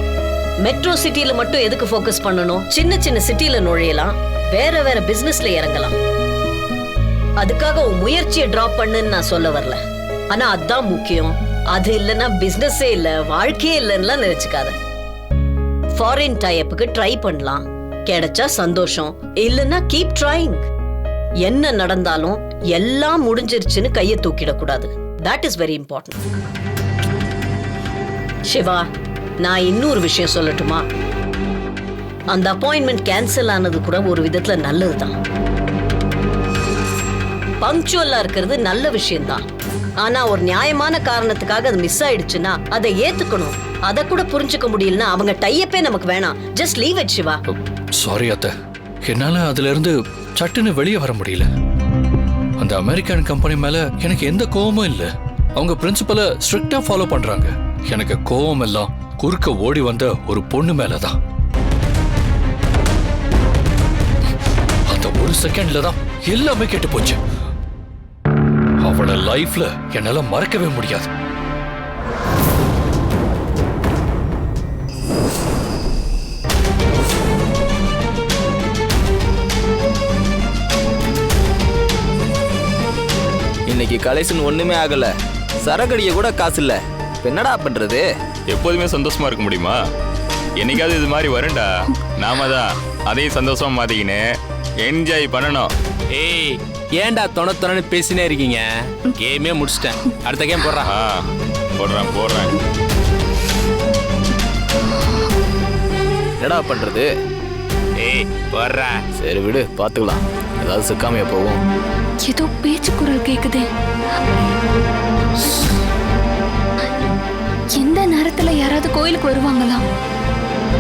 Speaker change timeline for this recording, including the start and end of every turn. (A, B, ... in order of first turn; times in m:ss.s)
0:00.6-0:06.0 A
0:07.4-0:09.8 A
0:10.3-0:14.8 A
0:16.0-0:20.6 A
0:21.5-0:26.2 A
0:28.5-0:28.8 A
0:29.4-0:30.8 A
0:32.3-0:35.1 A
0:37.6-0:39.4 A
0:40.0-0:47.4 A
0:47.5-0:48.5 B
0:49.1-0:51.5 B
0:52.6-1:01.2 B
1:04.9-1:07.2 B
1:08.8-1:11.1 B
1:23.7-1:28.1 C
1:28.5-1:29.8 D
1:30.6-1:35.7 D
1:36.2-1:40.9 E
1:40.8-1:41.2 D
1:41.8-1:42.6 D
1:46.4-1:47.1 C
1:48.0-1:49.0 E
1:49.2-1:51.6 C
1:52.2-1:53.7 F
1:57.8-1:59.8 F